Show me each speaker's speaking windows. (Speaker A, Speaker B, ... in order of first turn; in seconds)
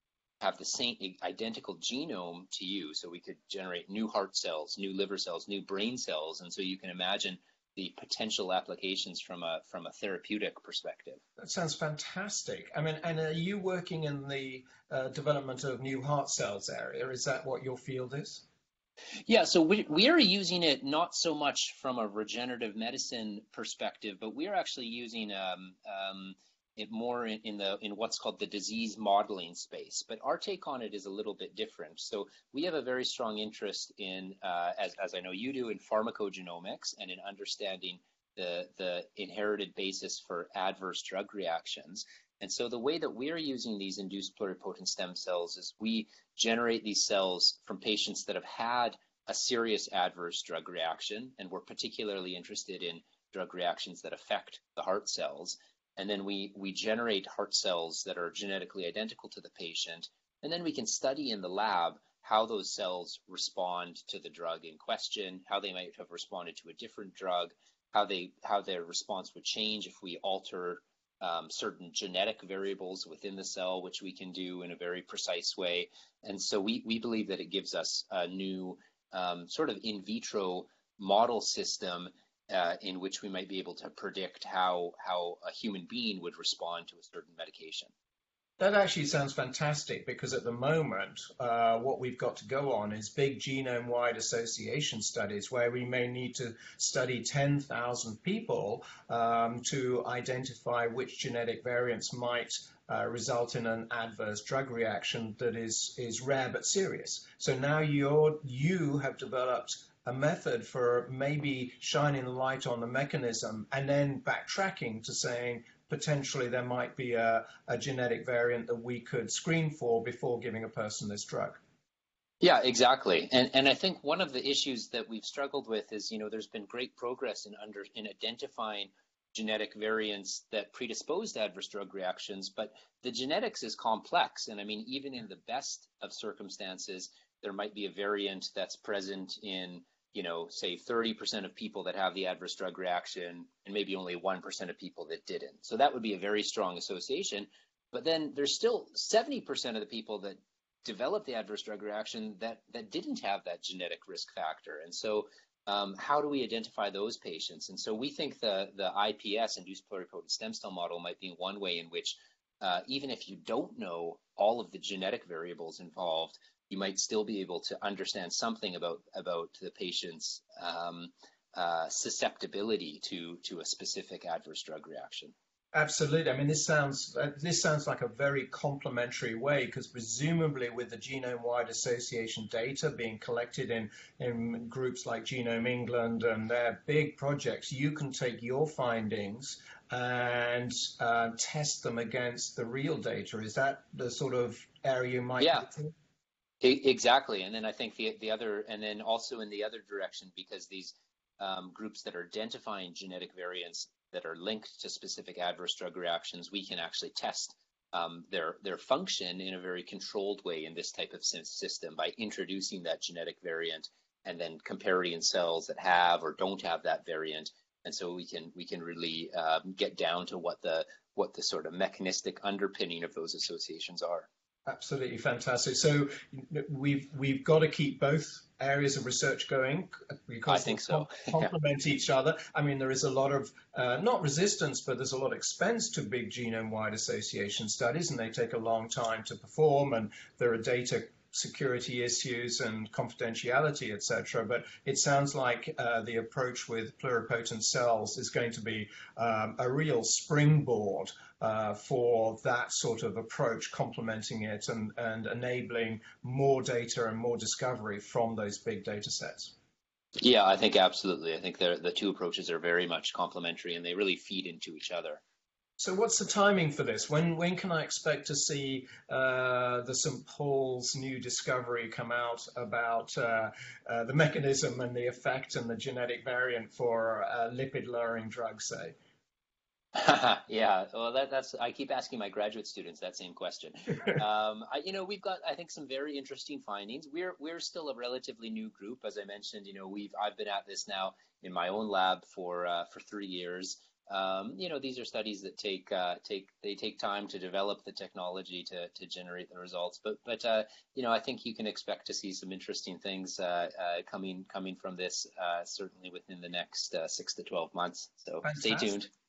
Speaker A: 0.4-11.2, 19.2-87.9, 122.4-175.3, 195.4-195.7, 196.6-224.3, 230.5-231.5, 260.2-265.2, 279.9-309.1
Speaker B: 11.4-18.4, 88.6-121.6, 175.7-195.9, 224.7-259.5, 265.8-278.9, 308.4-309.0